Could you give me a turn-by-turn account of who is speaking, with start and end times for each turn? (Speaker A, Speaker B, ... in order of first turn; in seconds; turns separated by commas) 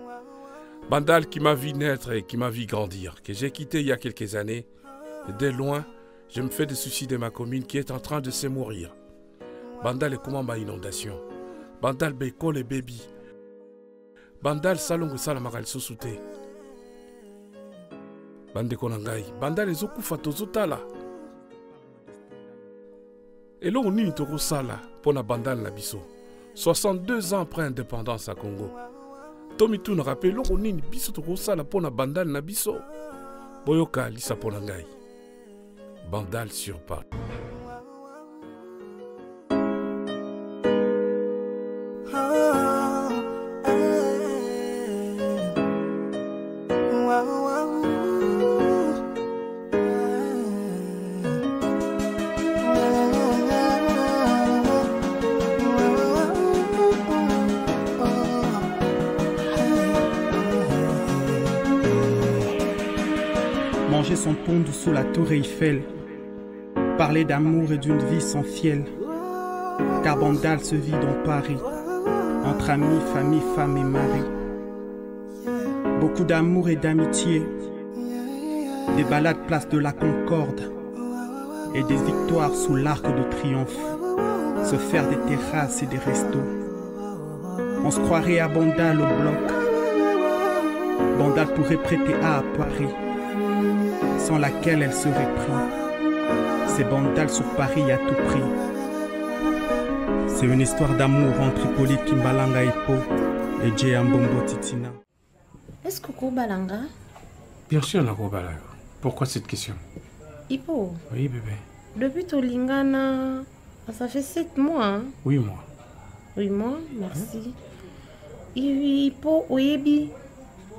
Speaker A: 0.9-4.7, Speaker A: 5.3-8.9, Speaker A: 9.8-11.2, Speaker A: 11.8-13.1, Speaker A: 14.4-16.2, Speaker A: 18.5-20.9, Speaker A: 23.6-28.8, Speaker A: 29.6-32.9, Speaker A: 33.6-34.9, Speaker A: 36.0-37.0, Speaker B: 63.9-65.9, Speaker B: 67.0-68.9, Speaker B: 70.0-71.7, Speaker B: 72.4-74.3, Speaker B: 76.0-77.5, Speaker B: 78.9-80.7, Speaker B: 81.7-84.0, Speaker B: 84.6-86.5, Speaker B: 87.8-89.6, Speaker B: 91.1-93.0, Speaker B: 94.2-95.7, Speaker B: 96.7-98.5, Speaker B: 100.3-103.1, Speaker B: 103.6-105.0, Speaker C: 105.8-106.9, Speaker A: 107.7-109.8, Speaker C: 110.5-111.0, Speaker A: 111.1-111.6, Speaker C: 112.0-115.2, Speaker A: 115.2-115.7, Speaker C: 116.4-117.5, Speaker C: 118.5-120.1